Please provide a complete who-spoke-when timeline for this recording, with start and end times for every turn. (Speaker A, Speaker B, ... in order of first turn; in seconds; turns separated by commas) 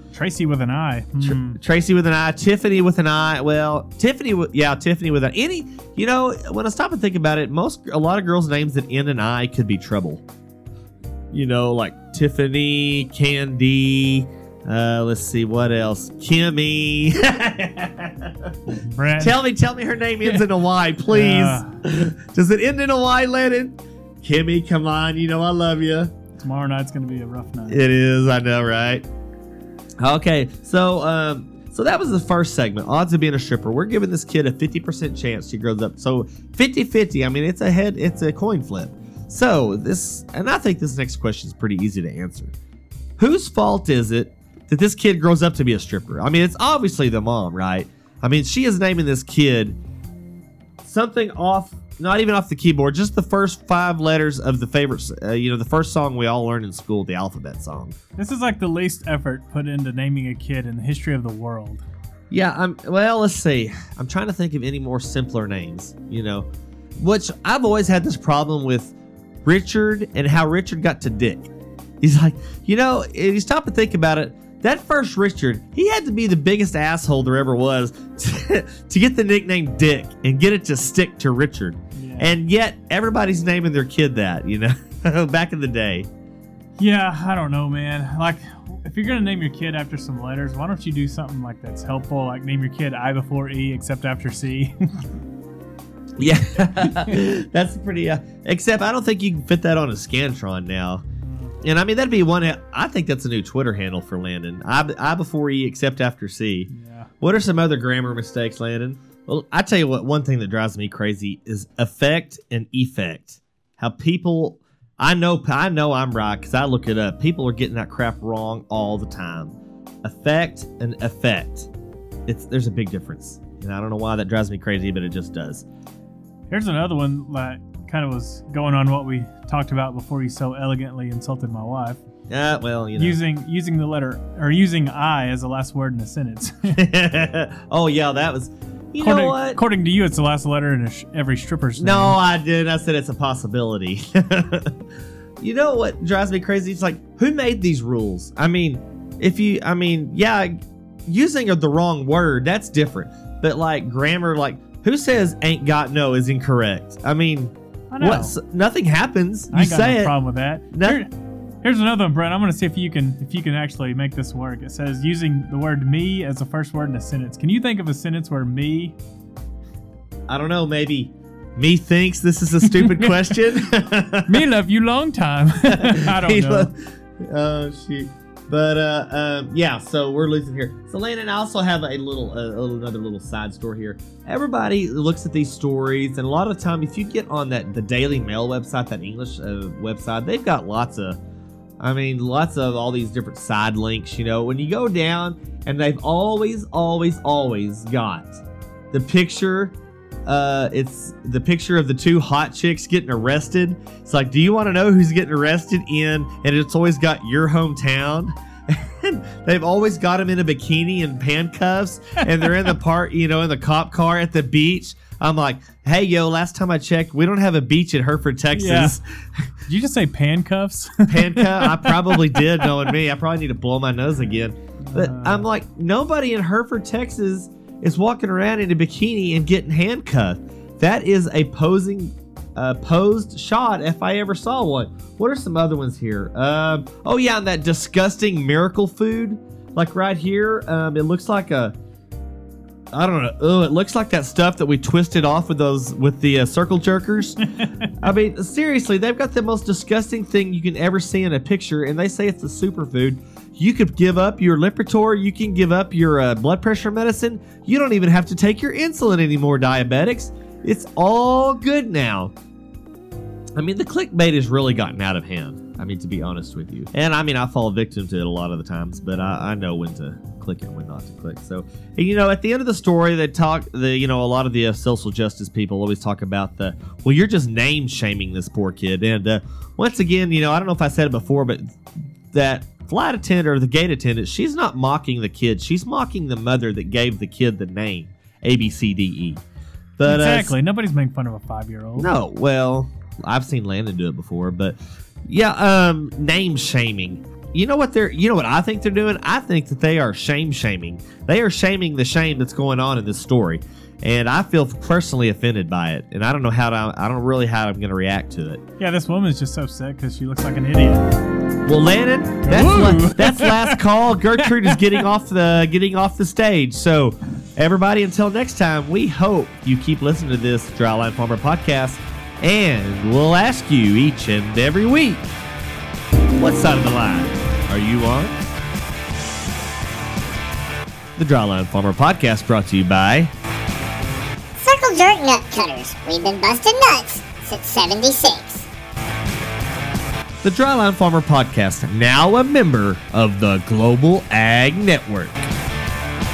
Speaker A: 0.1-1.6, Speaker B: 1.2-10.2, Speaker B: 11.3-18.6, Speaker A: 18.7-19.4, Speaker B: 19.2-26.1, Speaker A: 21.1-21.8, Speaker A: 26.4-27.8, Speaker B: 27.7-29.0, Speaker B: 30.0-42.5, Speaker B: 43.2-49.8, Speaker B: 50.8-58.0, Speaker A: 58.2-61.8, Speaker B: 62.3-66.5, Speaker B: 67.0-68.9, Speaker B: 69.4-71.5, Speaker B: 72.0-86.1, Speaker A: 82.0-82.3, Speaker A: 86.8-95.1, Speaker B: 96.2-101.0, Speaker A: 101.2-101.6, Speaker B: 101.6-106.7, Speaker A: 106.7-107.1, Speaker B: 107.2-121.7, Speaker B: 122.3-125.6, Speaker A: 126.5-132.0, Speaker B: 132.3-133.2, Speaker A: 133.0-136.8, Speaker B: 136.7-139.6, Speaker A: 139.0-142.2, Speaker B: 141.8-144.8, Speaker B: 145.4-150.5, Speaker B: 151.1-160.1, Speaker A: 157.9-158.3, Speaker A: 159.5-161.1, Speaker B: 160.7-161.0, Speaker A: 161.6-168.9, Speaker B: 170.3-174.3, Speaker A: 172.7-173.3, Speaker A: 174.3-176.7, Speaker B: 175.7-191.2, Speaker B: 191.8-199.7, Speaker B: 200.2-219.5, Speaker A: 218.5-218.9, Speaker A: 219.7-222.9, Speaker B: 221.1-241.7, Speaker A: 224.9-225.4, Speaker B: 242.9-262.3, Speaker B: 263.6-281.8, Speaker B: 282.3-289.4, Speaker B: 290.0-290.5, Speaker A: 290.1-292.1, Speaker B: 292.0-308.6, Speaker A: 308.8-311.1, Speaker B: 311.6-325.3, Speaker A: 312.4-313.8, Speaker A: 314.5-315.0, Speaker B: 326.4-328.4, Speaker B: 331.2-333.3, Speaker C: 334.6-338.7, Speaker B: 340.4-345.5